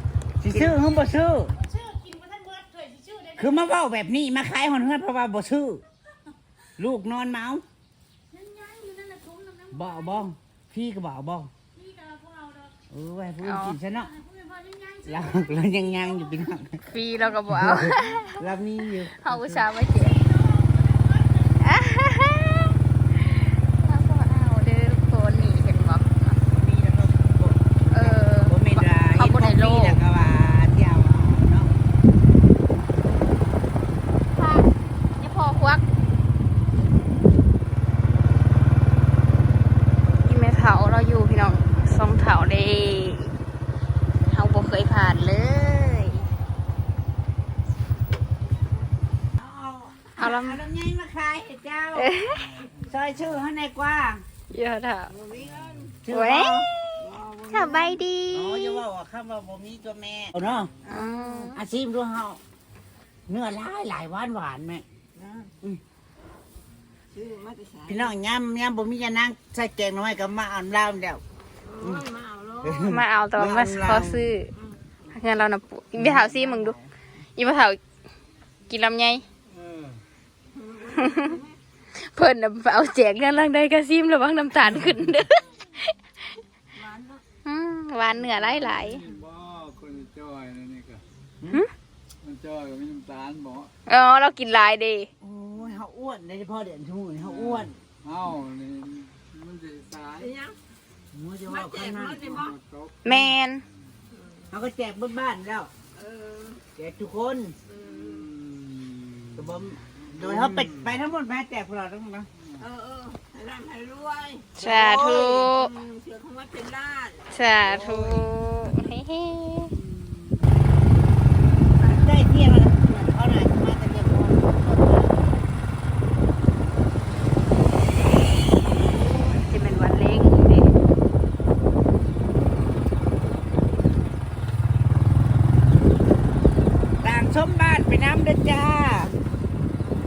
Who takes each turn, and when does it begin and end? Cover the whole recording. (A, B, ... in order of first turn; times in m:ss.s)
0:00.4-0:01.6 A
0:01.7-0:03.4 B
0:03.4-0:05.8 A
0:06.8-0:07.6 A
0:09.7-0:11.5 A
0:12.9-0:14.2 A
0:13.4-0:13.8 B
0:15.0-0:16.8 A
0:16.9-0:18.4 B
0:17.5-0:19.7 A
0:19.1-0:20.2 B
0:21.6-0:26.4 B
0:26.5-0:31.7 A
0:27.9-0:30.0 B
0:34.4-0:35.8 B
0:40.2-0:43.3 B
0:44.2-0:46.2 B
0:49.4-0:54.2 A
0:50.2-0:50.6 B
0:52.0-0:52.6 B
0:54.5-0:55.1 B
0:55.2-1:02.4 A
0:56.1-0:58.8 B
1:00.9-1:01.6 B
1:03.3-1:04.8 A
1:05.4-1:05.8 A
1:07.1-1:08.0 C
1:07.9-1:11.2 A
1:11.8-1:14.4 A
1:11.8-1:12.6 C
1:12.8-1:14.5 B
1:15.1-1:16.8 B
1:16.0-1:16.9 A
1:17.4-1:17.8 B
1:18.7-1:19.2 B
1:20.9-1:21.4 B
1:22.0-1:25.9 B
1:26.8-1:27.2 A
1:27.4-1:29.1 B
1:29.1-1:31.0 D
1:32.2-1:33.7 D
1:33.9-1:35.1 B
1:35.2-1:37.8 A
1:38.0-1:40.3 D
1:40.2-1:40.6 C
1:41.1-1:42.5 A
1:42.0-1:42.5 C
1:42.3-1:42.8 D
1:43.0-1:43.6 B
1:44.5-1:45.7 A
1:46.0-1:46.6 C
1:46.8-1:47.6 A
1:47.7-1:48.4 C
1:48.1-1:48.6 D
1:49.4-1:52.3 A
1:52.6-1:54.5 C
1:54.6-1:55.7 A
1:54.6-1:55.7 B
1:55.7-1:57.4 C
1:57.3-1:59.8 B
1:57.6-1:58.3 A
1:59.9-2:00.3 A
2:01.8-2:05.2 A
2:09.1-2:10.7 B
2:17.0-2:19.2 A